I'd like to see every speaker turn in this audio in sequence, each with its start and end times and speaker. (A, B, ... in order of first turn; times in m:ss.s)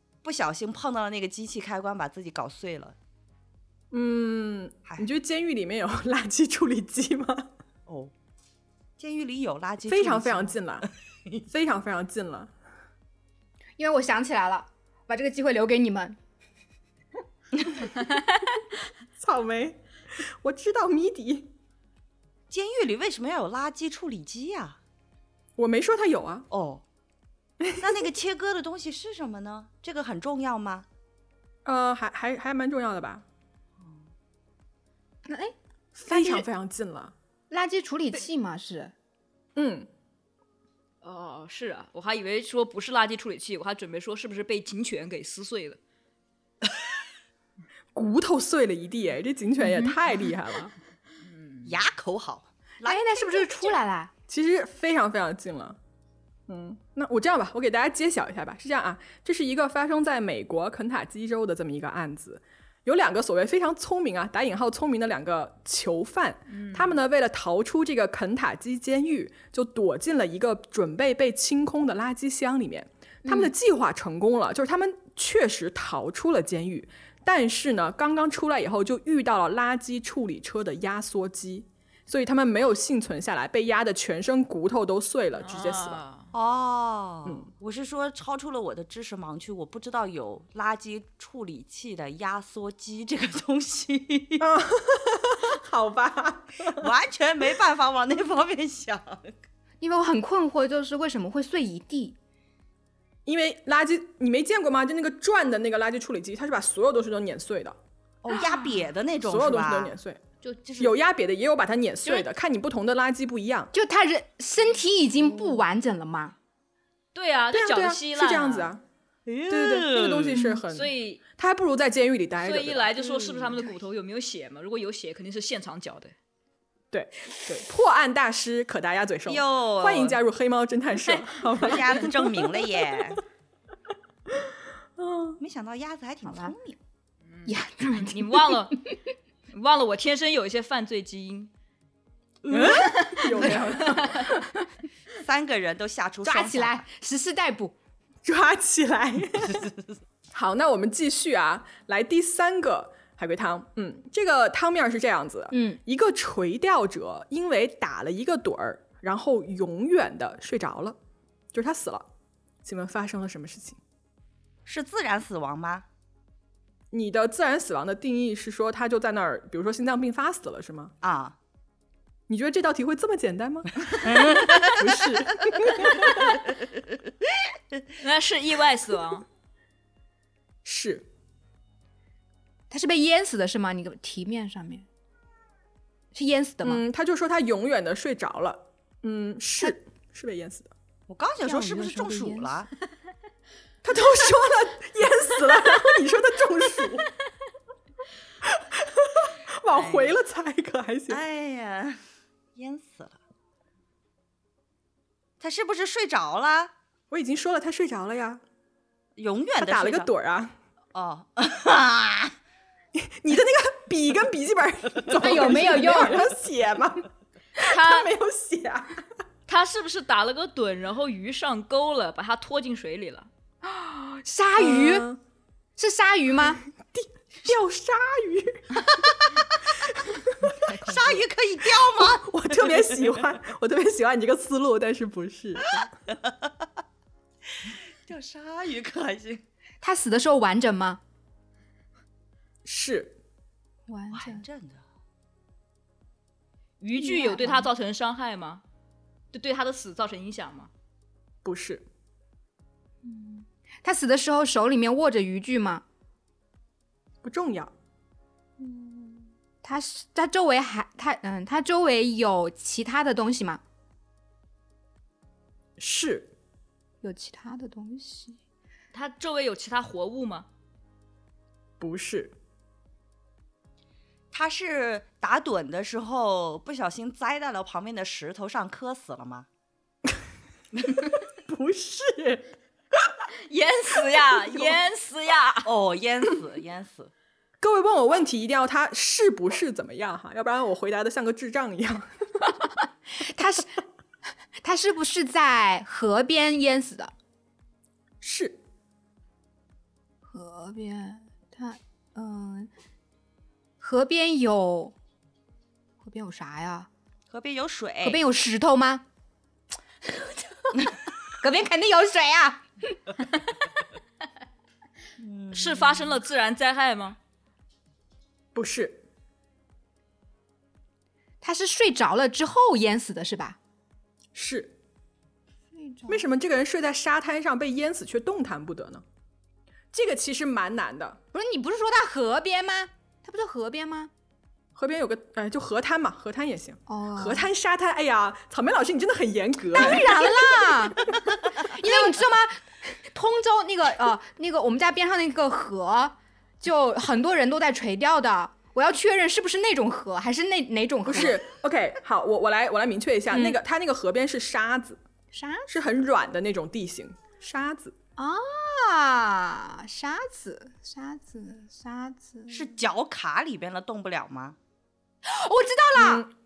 0:00.2-0:03.0 A
0:03.9-0:07.5 B
0:07.9-0:08.1 A
0:09.0-0:10.6 A
0:09.8-0:10.9 B
0:11.5-0:12.5 B
0:13.8-0:16.2 C
0:19.2-0:21.5 B
0:22.5-0:24.8 A
0:25.6-0:26.5 B
0:26.5-0:26.8 A
0:27.6-0:28.1 B
0:27.8-0:30.8 A
0:31.6-0:33.2 B
0:35.2-0:35.5 C
0:35.9-0:37.1 B
0:36.1-0:36.4 C
0:37.5-0:38.9 C
0:39.6-0:39.9 B
0:41.0-0:45.8 D
0:47.9-0:50.7 B
0:49.6-0:49.9 C
0:51.2-0:51.7 D
0:51.6-0:53.8 A
0:52.8-0:54.1 C
0:54.3-0:55.8 B
0:56.5-1:26.0 B
1:06.5-1:07.0 D
1:13.2-1:13.5 C
1:25.4-1:26.3 D
1:26.3-1:34.4 A
1:34.4-1:36.9 B
1:36.8-1:39.3 A
1:39.8-1:42.2 C
1:43.2-1:47.8 B
1:48.2-1:50.0 A
1:49.2-1:50.2 B
1:50.4-1:50.9 D
1:50.8-1:53.7 B
1:53.7-1:56.3 C
1:57.1-1:58.7 D
1:57.5-1:58.8 B
1:59.2-2:00.4 A
1:59.5-2:02.9 B
2:00.7-2:01.2 D
2:02.4-2:06.1 D
2:03.0-2:03.7 A
2:06.9-2:12.3 B
2:09.2-2:10.2 A
2:11.0-2:12.0 D
2:11.6-2:13.2 A
2:14.3-2:15.4 B
2:15.4-2:16.8 A
2:16.3-2:16.5 C
2:17.3-2:18.9 D
2:17.4-2:18.6 C
2:19.5-2:21.5 D
2:22.5-2:23.0 A
2:22.5-2:24.4 B
2:22.9-2:24.3 D
2:25.1-2:26.8 A
2:26.2-2:27.7 C
2:28.2-2:29.7 B
2:30.3-2:41.0 B
2:35.5-2:35.8 C
2:41.5-2:42.0 B
2:42.6-2:43.8 B
2:44.6-2:45.8 A
2:46.9-2:50.9 B
2:51.0-2:51.4 A
2:52.3-2:56.4 B
2:53.9-2:54.9 A
2:58.0-2:59.2 D
3:00.6-3:01.1 B
3:02.7-3:04.8 C
3:06.1-3:06.8 C
3:06.6-3:10.7 B
3:11.1-3:12.7 A
3:11.4-3:12.5 C
3:13.8-3:17.1 B
3:18.4-3:21.2 B
3:19.7-3:20.2 A
3:21.1-3:22.0 A
3:22.5-3:23.2 A
3:25.4-3:26.7 A
3:27.1-3:28.4 B
3:29.2-3:30.1 A
3:29.6-3:30.5 B
3:30.9-3:32.3 A
3:32.9-3:39.0 B
3:35.1-3:36.3 C
3:37.6-3:38.1 D
3:39.5-3:43.3 D
3:43.6-3:45.1 C
3:44.6-3:45.2 B
3:45.8-3:46.6 C
3:46.8-3:48.8 B
3:50.6-3:53.0 A
3:51.8-3:55.9 B
3:55.6-3:56.7 A
3:57.6-3:59.4 A
3:59.8-4:01.0 C
4:02.6-4:03.2 B
4:03.9-4:04.4 C
4:04.1-4:04.8 A
4:06.8-4:08.6 D
4:07.0-4:07.7 C
4:09.3-4:10.7 D
4:11.4-4:11.8 B
4:13.0-4:15.8 C
4:17.2-4:17.7 B
4:18.6-4:23.6 C
4:25.8-4:26.3 B
4:27.0-4:28.4 C
4:28.9-4:30.5 D
4:31.8-4:32.3 B
4:34.3-4:39.5 A
4:41.3-4:43.2 B
4:43.5-4:45.7 D
4:44.2-4:44.8 B
4:45.6-4:47.1 A
4:47.6-4:52.1 B
4:53.2-4:53.8 C
4:54.6-4:57.1 C
4:58.2-4:58.6 B
5:00.2-5:02.7 C
5:03.8-5:04.9 C
5:06.0-5:06.9 C
5:07.3-5:08.2 A
5:08.0-5:09.0 C
5:10.0-5:12.6 C
5:15.2-5:16.1 A
5:15.5-5:17.2 D
5:18.5-5:19.0 B
5:21.4-5:23.6 C
5:24.3-5:24.8 B
5:25.7-5:26.2 C
5:26.1-5:29.0 B
5:29.9-5:31.2 B
5:31.3-5:34.1 C
5:34.7-5:40.2 B
5:36.9-5:37.5 C
5:39.7-5:51.4 C
5:51.0-5:55.0 B
5:53.3-5:53.6 C
5:55.3-5:55.7 C
5:55.7-5:57.9 B
5:58.2-6:02.7 C
6:02.5-6:04.6 A
6:05.2-6:06.3 C
6:06.0-6:06.3 B